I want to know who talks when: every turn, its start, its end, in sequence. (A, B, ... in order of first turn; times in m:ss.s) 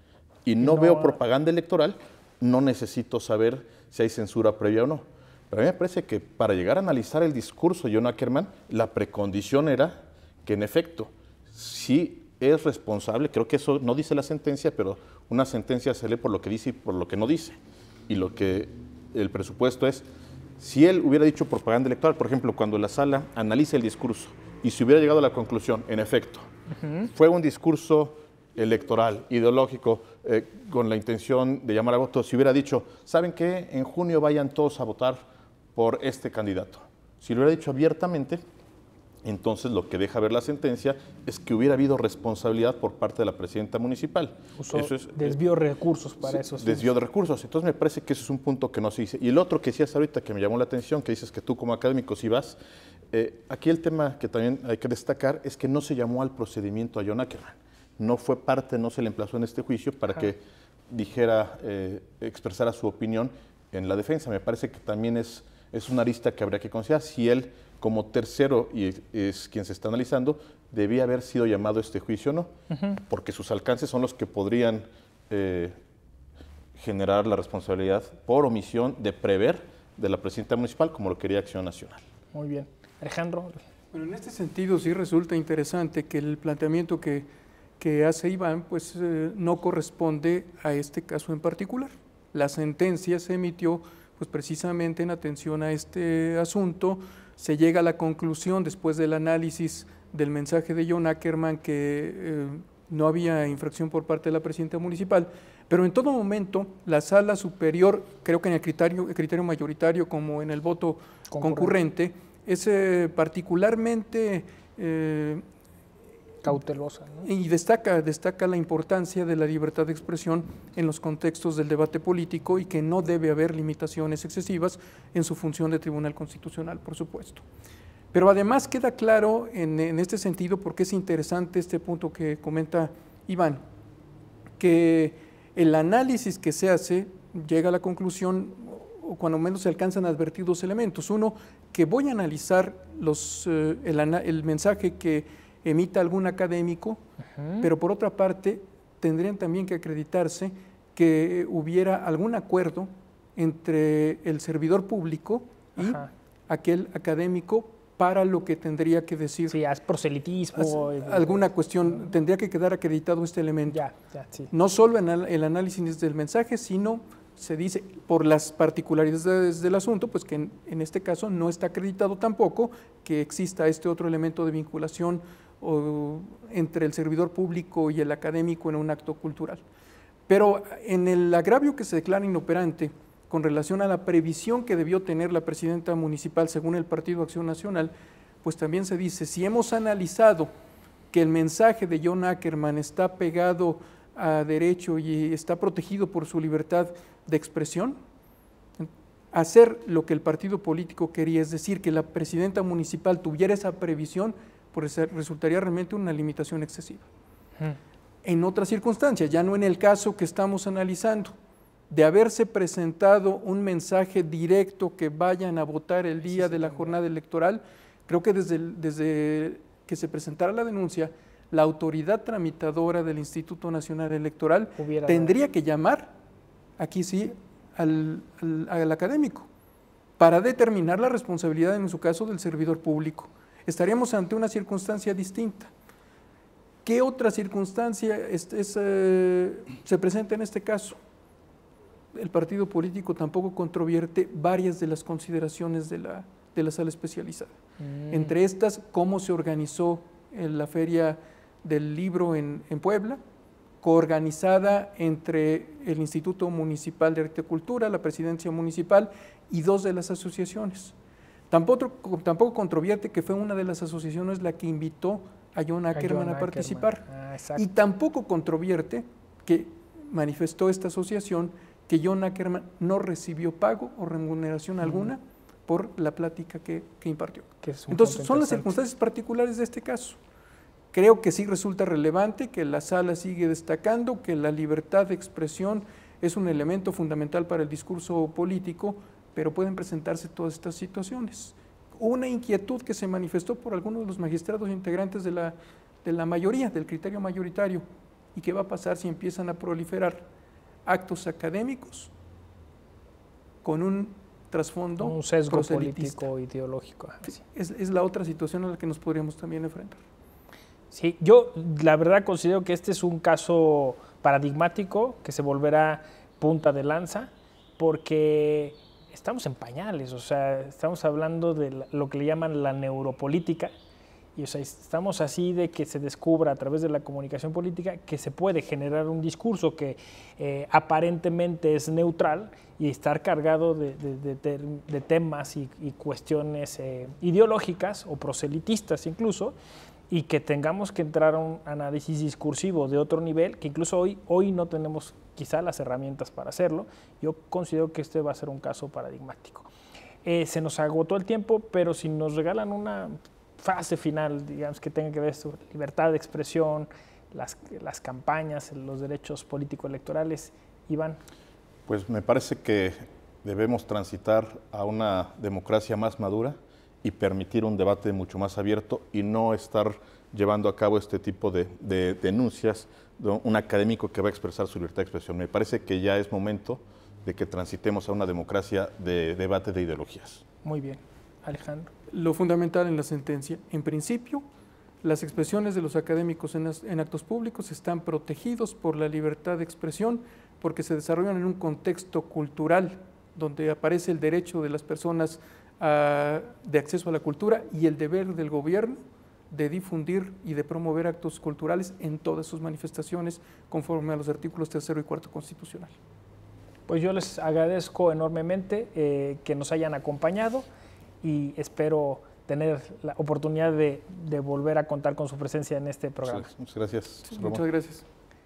0:00.4-0:20.1 A
0:00.6-0:01.2 B
0:20.6-0:26.5 A
0:26.8-0:27.1 B
0:27.1-0:35.2 A
0:35.7-0:38.4 A
0:39.2-0:45.4 A
0:44.6-0:46.9 B
0:46.2-0:52.6 A
0:53.1-1:12.5 A
1:12.7-1:13.0 B
1:13.1-1:15.8 A
1:16.8-1:22.0 A
1:22.3-1:23.6 B
1:23.9-1:27.3 C
1:27.8-1:55.4 C
1:51.3-1:51.7 B
1:56.4-1:57.3 B
1:57.2-2:07.4 C
2:08.1-2:13.6 C
2:14.6-2:27.0 C
2:27.3-2:27.7 B
2:27.6-2:39.6 C
2:35.8-2:36.1 B
2:39.5-2:41.5 B
2:40.6-2:43.8 C
2:43.7-2:44.5 B
2:44.5-2:59.6 C
3:00.3-3:07.9 C
3:08.4-3:10.5 C
3:11.1-3:18.0 C
3:18.8-3:27.0 C
3:28.2-3:31.3 C
3:31.9-3:46.1 C
3:36.2-3:37.0 B
3:44.8-3:45.3 B
3:46.8-3:49.5 C
3:50.2-3:55.7 C
3:56.8-4:01.0 C
4:02.1-4:07.5 C
4:07.8-4:08.3 B
4:08.1-4:13.2 C
4:13.8-4:20.9 C
4:21.5-4:27.0 C
4:25.9-4:27.8 B
4:27.6-4:40.2 C
4:34.8-4:35.1 B
4:37.6-4:38.7 B
4:40.9-4:57.8 C
4:58.3-5:00.2 C
5:00.8-5:02.1 C
5:03.6-5:06.3 C
5:05.0-5:07.3 B
5:07.2-5:10.0 C
5:10.9-5:23.7 B
5:24.4-5:39.5 B
5:40.1-5:49.7 B
5:50.2-6:01.2 B
6:01.9-6:20.4 A
6:20.6-6:21.9 B
6:22.1-6:24.4 C
6:25.0-6:39.0 C
6:39.5-6:45.9 C
6:46.9-6:50.6 B
6:51.2-6:56.5 B
6:56.2-6:57.6 A
6:57.3-6:58.0 C